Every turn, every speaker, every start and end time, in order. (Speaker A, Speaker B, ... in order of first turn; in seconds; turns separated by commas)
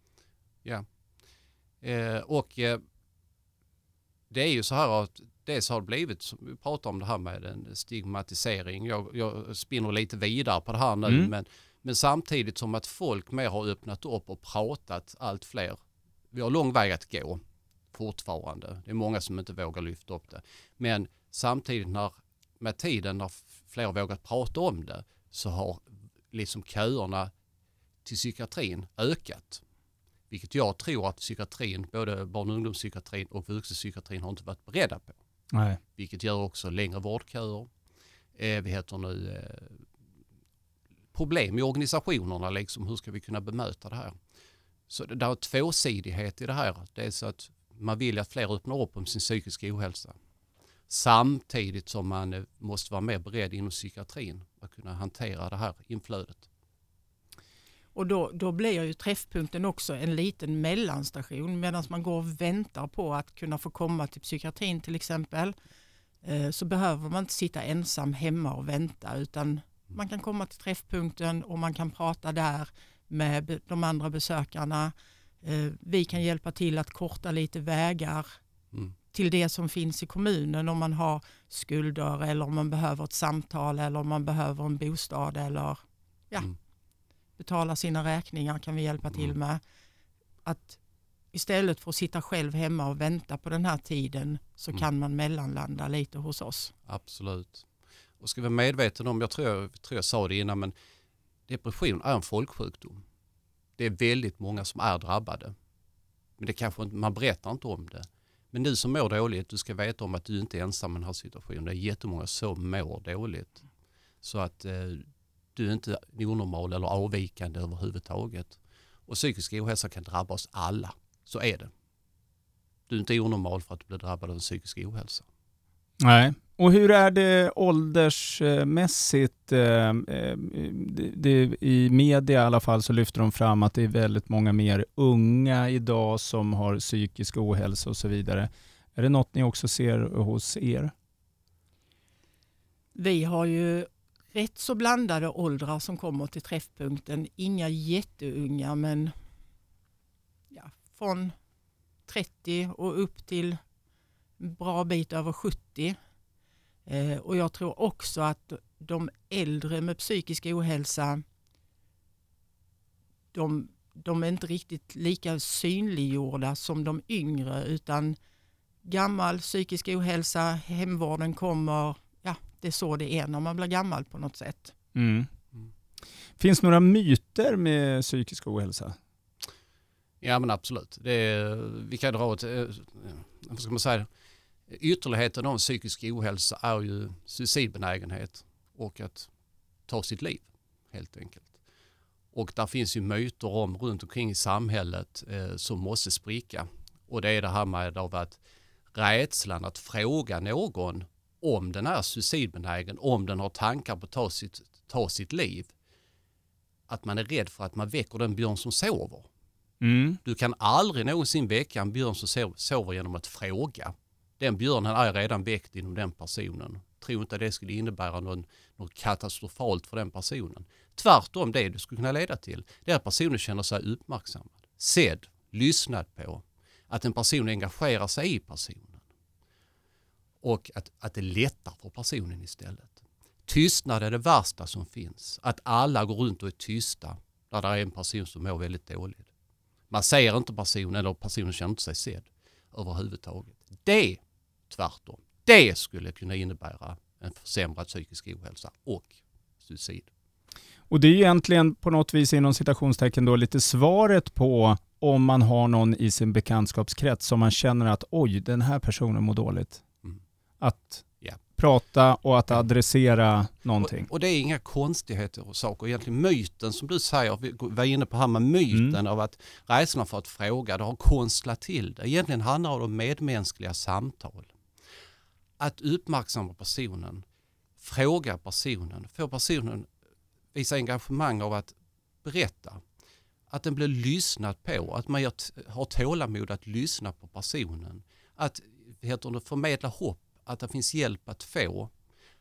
Speaker A: 1.8-2.8, Speaker A: 4.3-15.8, Speaker A: 16.3-17.4, Speaker A: 17.9-27.3, Speaker A: 28.0-29.6, Speaker A: 30.3-35.2, Speaker B: 35.5-35.8, Speaker A: 36.0-37.7, Speaker A: 38.4-39.8, Speaker A: 41.1-44.1, Speaker A: 44.9-50.1, Speaker A: 50.9-56.5, Speaker C: 57.9-65.5, Speaker C: 66.2-78.4, Speaker C: 79.1-85.8, Speaker C: 87.4-89.6, Speaker C: 90.4-90.8, Speaker C: 91.3-96.7, Speaker A: 96.9-97.6, Speaker A: 98.2-100.7, Speaker A: 101.5-103.0, Speaker A: 103.8-105.5, Speaker A: 106.4-113.6, Speaker A: 114.2-115.0, Speaker A: 115.5-121.7, Speaker A: 122.9-125.2, Speaker B: 126.0-140.9, Speaker C: 142.9-149.1, Speaker C: 150.5-151.3, Speaker C: 152.1-153.6, Speaker C: 154.4-155.9, Speaker C: 156.9-161.2, Speaker C: 163.3-168.2, Speaker C: 168.8-174.7, Speaker B: 174.9-175.3, Speaker B: 176.4-178.9, Speaker A: 180.2-184.1, Speaker A: 184.7-189.3, Speaker A: 189.9-191.5, Speaker A: 192.3-198.4, Speaker A: 198.9-205.7, Speaker A: 206.9-209.3, Speaker B: 209.8-210.2, Speaker A: 210.2-229.0, Speaker A: 230.4-239.3, Speaker A: 239.9-250.1, Speaker B: 250.9-259.8, Speaker B: 260.6-264.1, Speaker A: 263.8-274.5, Speaker A: 275.6-277.2, Speaker A: 277.8-279.9, Speaker A: 280.5-282.8, Speaker A: 283.5-291.9